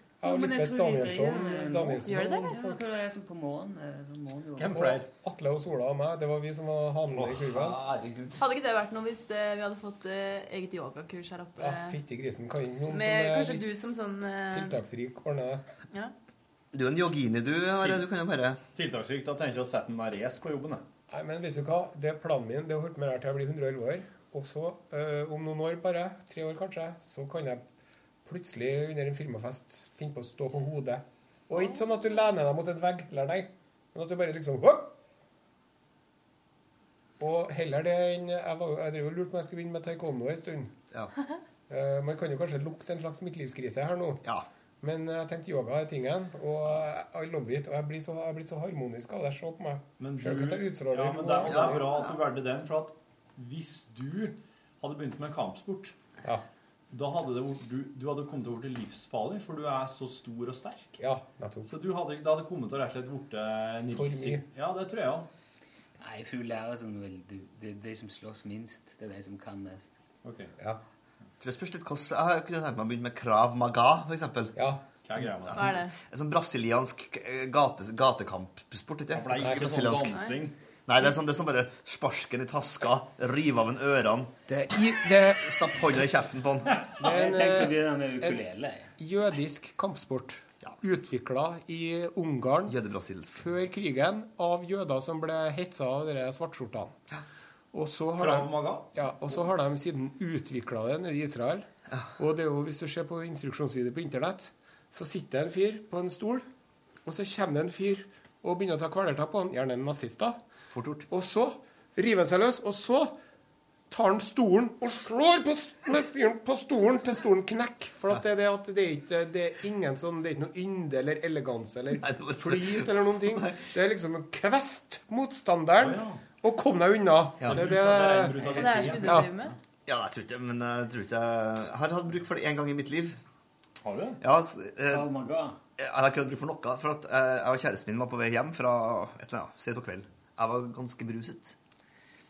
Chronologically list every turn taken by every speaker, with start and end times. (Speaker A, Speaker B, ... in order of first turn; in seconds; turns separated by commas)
Speaker A: 0.2-2.8, Speaker B: 0.2-5.0, Speaker C: 2.1-2.6, Speaker D: 4.6-5.1, Speaker A: 5.1-7.8, Speaker D: 7.1-8.4, Speaker C: 8.4-12.0, Speaker A: 11.6-13.9, Speaker C: 12.9-14.8, Speaker A: 14.5-15.6, Speaker E: 16.7-18.6, Speaker D: 18.7-20.8, Speaker A: 21.1-27.6, Speaker A: 28.2-34.9, Speaker C: 31.5-32.2, Speaker A: 37.2-40.7, Speaker A: 41.7-44.2, Speaker A: 44.8-52.0, Speaker D: 50.0-56.0, Speaker E: 51.5-52.1, Speaker D: 56.9-61.0, Speaker A: 61.0-61.7, Speaker D: 61.6-65.3, Speaker A: 63.9-64.4, Speaker B: 66.0-69.9, Speaker D: 70.2-70.5, Speaker E: 71.4-74.5, Speaker A: 74.5-74.8, Speaker D: 75.0-75.8, Speaker E: 75.5-80.1, Speaker C: 75.6-75.9, Speaker D: 79.1-80.5, Speaker E: 80.9-84.3, Speaker A: 84.5-85.5, Speaker E: 85.4-86.7, Speaker A: 87.0-88.4, Speaker B: 87.0-88.9, Speaker A: 89.0-92.7, Speaker E: 92.7-93.4, Speaker A: 93.3-96.9, Speaker A: 97.7-106.5, Speaker D: 98.2-98.9, Speaker A: 107.0-110.4, Speaker E: 110.7-111.0, Speaker A: 111.1-113.1, Speaker A: 113.9-129.4, Speaker E: 122.0-123.7, Speaker D: 125.8-126.2, Speaker D: 127.4-129.3, Speaker C: 128.5-129.6, Speaker E: 129.9-133.2, Speaker D: 133.8-134.2, Speaker E: 134.2-135.1, Speaker B: 134.9-135.6, Speaker E: 135.8-141.6